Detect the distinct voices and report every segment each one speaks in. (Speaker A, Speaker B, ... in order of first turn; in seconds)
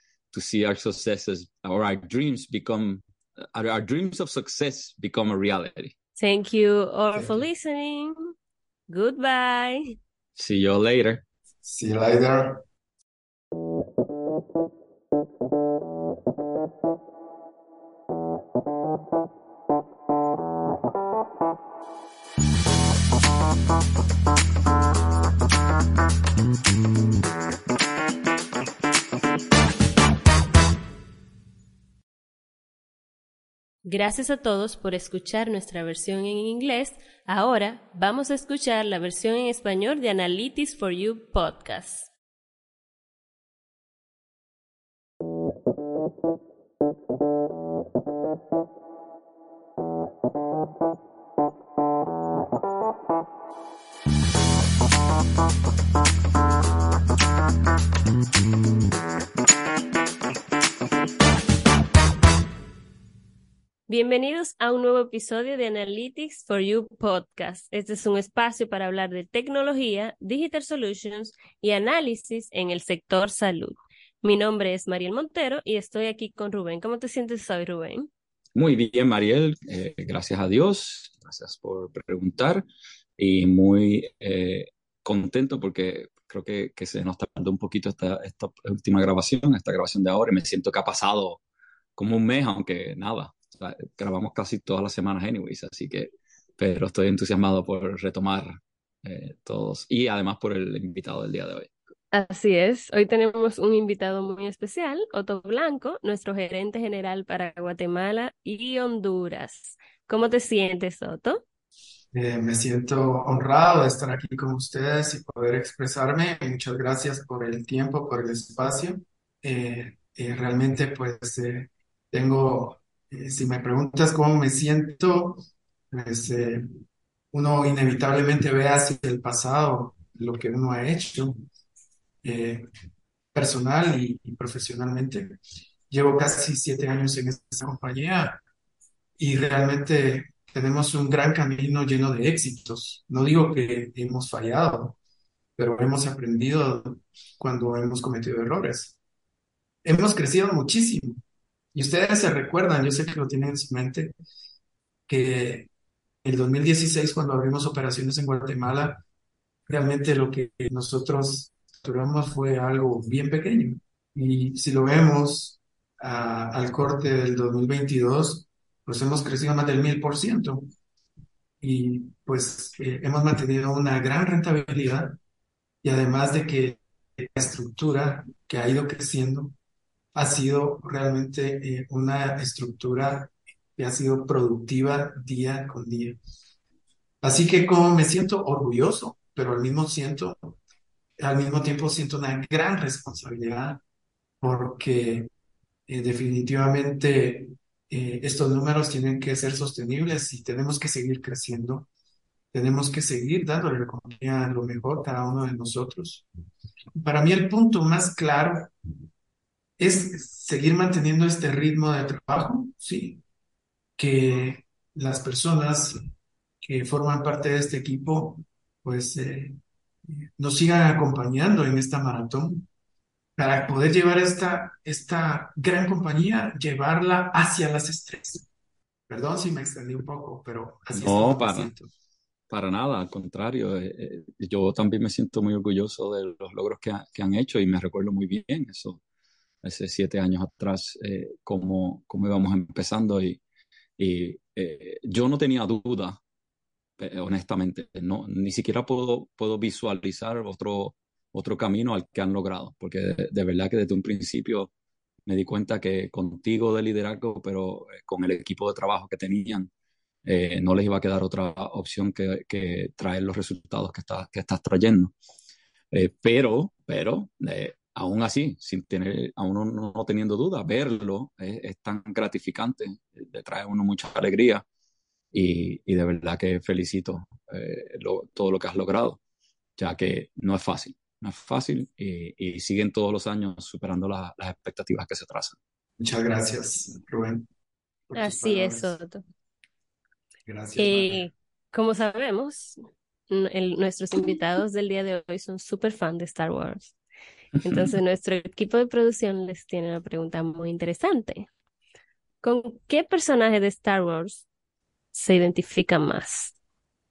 Speaker A: 0.3-6.0, 10.4-11.2, 78.5-82.7, 83.2-91.4, 92.0-101.7, 230.9-231.7, 232.5-239.0, 239.6-243.4, 244.0-246.2, 247.0-254.7, 255.3-259.7, 260.2-265.1, 265.9-274.6, 275.3-279.2, 279.8-285.6
Speaker B: 6.2-8.3, 8.9-10.0, 33.9-42.1, 63.9-78.1, 102.1-111.4, 288.1-289.2, 290.8-296.9, 297.6-301.5, 302.4-304.4, 305.1-306.5
Speaker C: 7.2-7.4, 11.6-12.6, 112.1-126.7, 127.3-131.4, 132.2-132.7, 133.3-135.4, 135.9-138.4, 139.2-145.0, 145.6-149.0, 149.8-151.2, 151.7-154.1, 155.1-155.7, 156.2-159.0, 159.7-170.7, 171.6-175.2, 175.8-179.6, 180.1-186.2, 187.2-190.6, 191.2-193.8, 194.4-195.3, 195.9-201.9, 202.5-206.2, 207.0-208.7, 209.8-213.2, 214.0-216.0, 216.6-219.6, 220.1-222.7, 223.4-228.5, 229.1-231.9, 286.0-287.5, 288.1-289.0, 290.4-291.3